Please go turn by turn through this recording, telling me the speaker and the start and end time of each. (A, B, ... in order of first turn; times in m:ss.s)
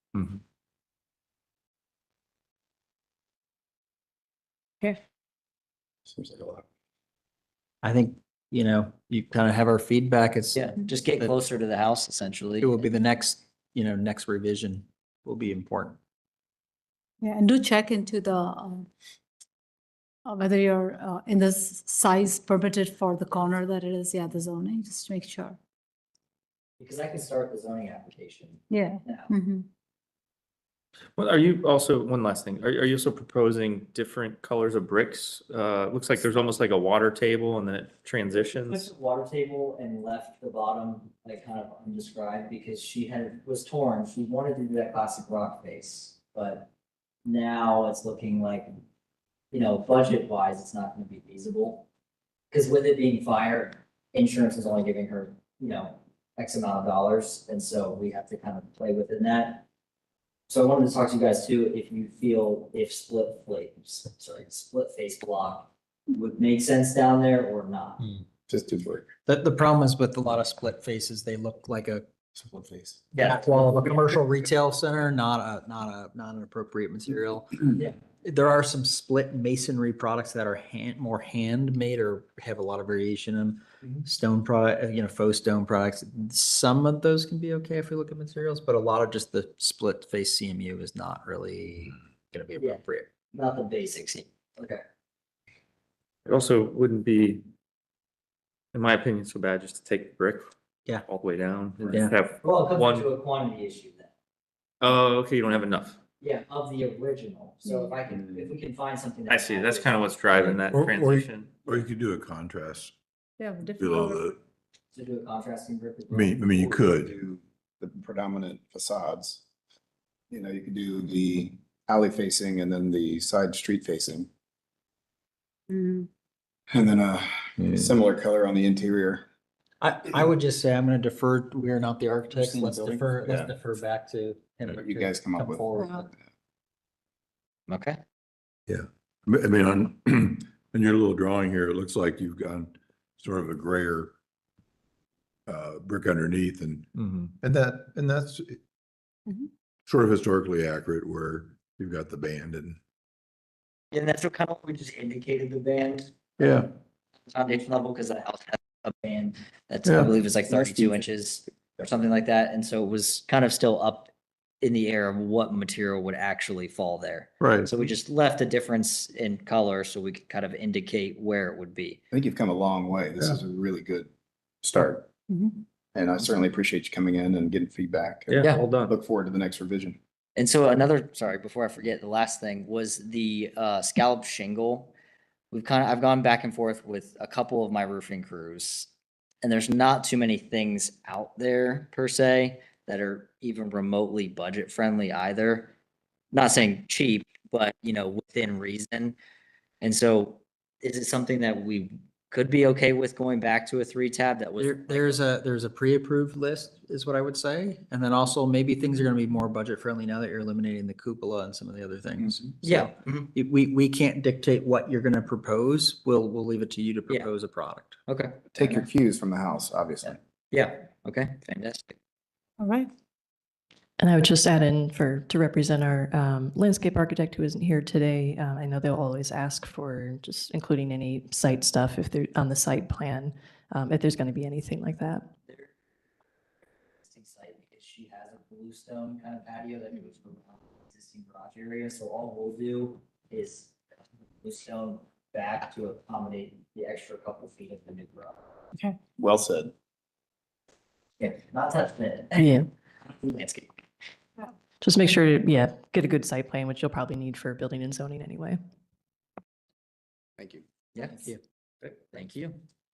0:06.0-0:06.6 A
0:07.8-0:11.3 B
0:10.5-0:12.8 C
0:12.6-0:16.0 B
0:17.2-0:18.9 D
0:20.2-0:25.6 D
0:26.8-0:29.3 C
0:28.7-0:29.7 D
0:31.2-0:38.9 E
0:38.7-0:46.7 C
0:47.2-0:48.8 C
0:49.5-0:51.9 C
0:52.5-0:59.6 C
1:00.5-1:08.0 C
1:08.5-1:09.1 A
1:09.2-1:12.1 B
1:12.3-1:13.0 A
1:13.1-1:13.7 C
1:13.2-1:33.1 B
1:33.3-1:34.8 C
1:36.2-1:37.4 E
1:38.7-1:40.5 E
1:41.0-1:43.0 E
1:42.4-1:44.1 C
1:44.8-1:46.0 E
1:46.2-1:49.9 C
1:49.3-1:51.8 E
1:50.6-1:52.9 F
1:53.4-1:54.3 D
1:53.7-1:54.4 F
1:54.9-1:56.8 C
1:56.1-1:57.1 F
1:57.0-1:59.4 A
2:00.3-2:04.3 A
2:05.7-2:06.1 D
2:06.7-2:09.2 A
2:09.8-2:16.1 B
2:12.4-2:13.5 A
2:14.7-2:16.0 A
2:17.7-2:18.0 C
2:18.7-2:24.1 F
2:25.5-2:26.9 F
2:27.0-2:27.3 E
2:27.4-2:28.6 F
2:29.9-2:32.8 F
2:33.9-2:36.6 C
2:36.4-2:36.7 F
2:37.3-2:52.0 C
2:39.8-2:40.1 F
2:47.4-2:47.7 F
2:52.1-2:54.1 A
2:54.6-2:55.1 A
2:55.3-2:55.5 D
2:55.9-3:00.0 A
2:58.3-2:58.9 E
3:00.4-3:04.9 C
3:05.5-3:08.9 C
3:09.4-3:15.7 C
3:16.3-3:19.2 C
3:19.8-3:25.2 C
3:24.6-3:38.0 B
3:32.6-3:33.3 C
3:38.1-3:38.8 C
3:38.5-3:40.2 A
3:40.0-3:42.0 C
3:42.6-3:42.9 D
3:44.0-3:55.3 G
3:57.0-4:03.8 C
4:04.4-4:08.4 C
4:09.2-4:09.7 A
4:11.2-4:12.5 C
4:12.3-4:12.7 G
4:13.1-4:13.7 C
4:14.8-4:18.6 G
4:20.4-4:20.6 A
4:20.9-4:22.6 C